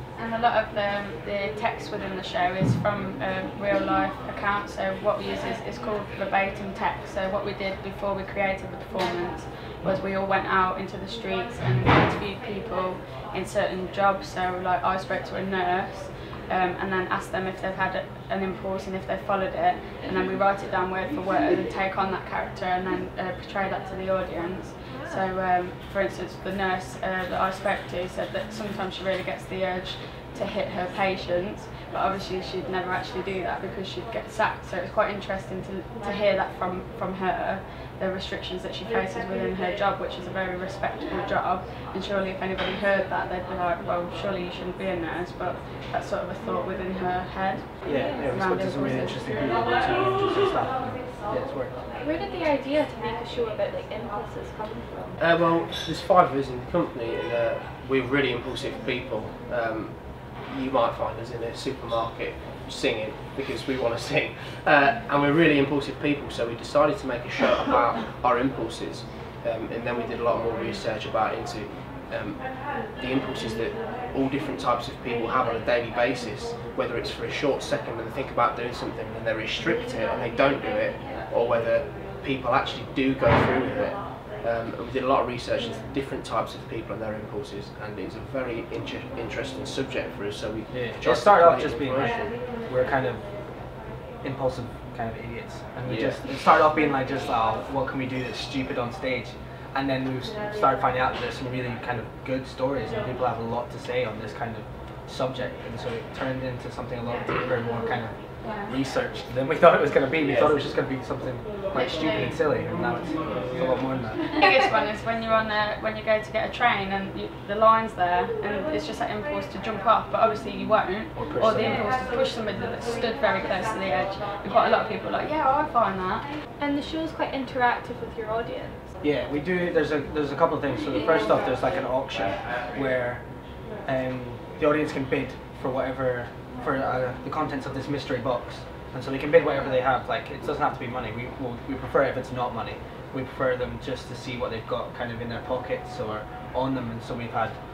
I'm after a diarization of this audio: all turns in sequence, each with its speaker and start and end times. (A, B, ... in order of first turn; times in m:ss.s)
0:00.1-0:49.7 A
0:24.9-0:25.2 B
0:47.8-0:51.8 C
0:47.9-0:48.3 B
0:52.0-0:55.2 B
0:55.2-1:32.4 D
1:30.7-1:54.2 C
1:35.8-1:36.3 D
1:48.4-1:48.7 A
1:50.2-1:50.7 D
1:51.7-1:52.4 A
1:54.3-2:06.3 A
2:01.1-2:01.9 C
2:06.6-2:08.8 B
2:09.0-2:13.3 C
2:13.8-2:27.6 C